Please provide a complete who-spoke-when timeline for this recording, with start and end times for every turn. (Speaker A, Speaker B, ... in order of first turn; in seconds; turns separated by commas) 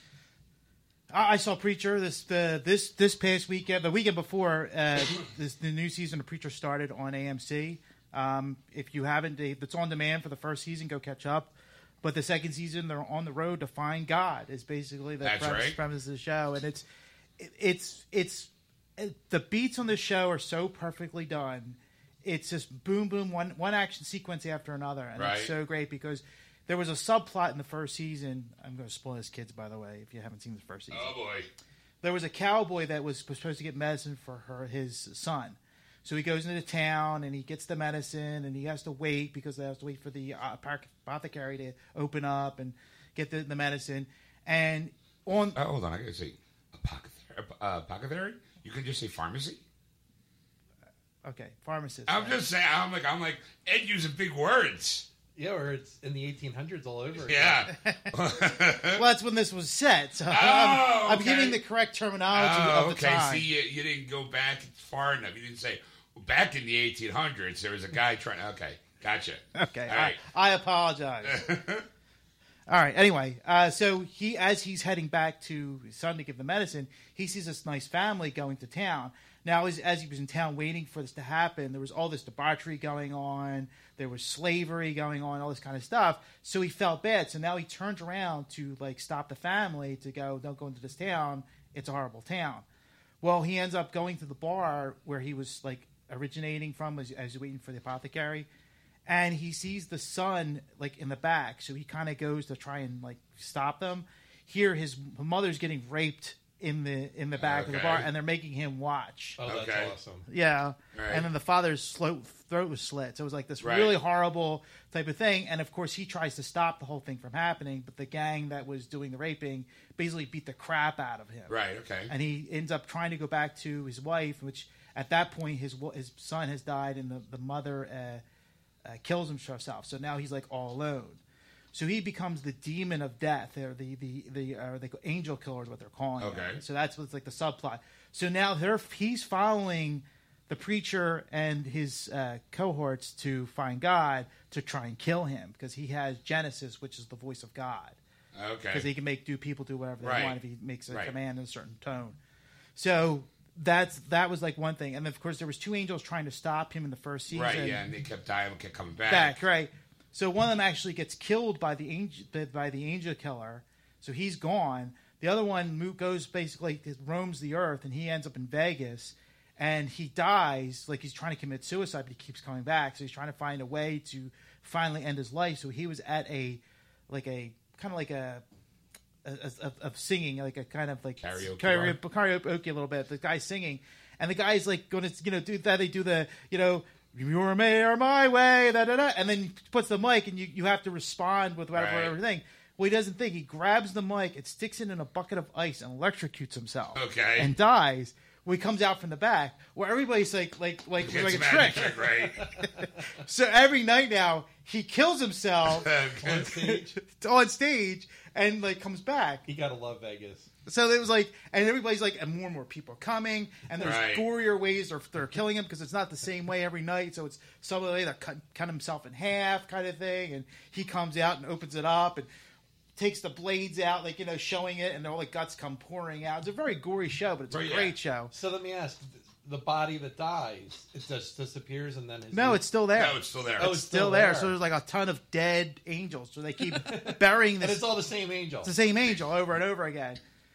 Speaker A: 1.1-16.9, Speaker B: 15.2-15.8, Speaker A: 17.4-31.1, Speaker B: 25.2-25.5, Speaker B: 30.9-31.5, Speaker A: 32.0-45.6, Speaker B: 45.5-49.6, Speaker A: 51.2-52.4, Speaker B: 52.1-55.1, Speaker C: 55.4-57.7, Speaker B: 57.2-59.0, Speaker A: 58.9-63.5, Speaker B: 60.3-61.6, Speaker B: 62.3-70.2, Speaker A: 69.5-71.5, Speaker B: 71.2-71.9, Speaker A: 72.7-92.7, Speaker A: 93.2-98.5, Speaker A: 99.1-109.4, Speaker B: 107.4-108.1, Speaker C: 109.4-110.2, Speaker B: 109.5-109.9, Speaker A: 110.3-121.5, Speaker B: 110.9-111.3, Speaker B: 113.6-114.0, Speaker B: 121.5-122.1, Speaker A: 122.1-128.2, Speaker A: 128.8-131.2, Speaker A: 131.7-148.0, Speaker B: 136.2-136.6, Speaker B: 148.3-148.9, Speaker A: 148.7-152.2, Speaker B: 150.0-151.2, Speaker A: 152.8-157.8, Speaker B: 157.3-159.4, Speaker A: 159.1-178.4, Speaker A: 179.2-209.4, Speaker B: 181.2-182.0, Speaker B: 191.7-192.2, Speaker B: 196.9-197.5, Speaker B: 201.0-202.6, Speaker B: 205.7-206.5, Speaker C: 206.2-206.9, Speaker C: 209.5-210.5, Speaker A: 210.7-222.3, Speaker B: 213.8-214.3, Speaker A: 223.0-228.3, Speaker B: 227.5-227.9, Speaker C: 228.3-232.7, Speaker A: 232.3-237.9, Speaker B: 232.9-233.8, Speaker C: 233.6-234.6, Speaker C: 236.7-238.7, Speaker A: 238.6-240.2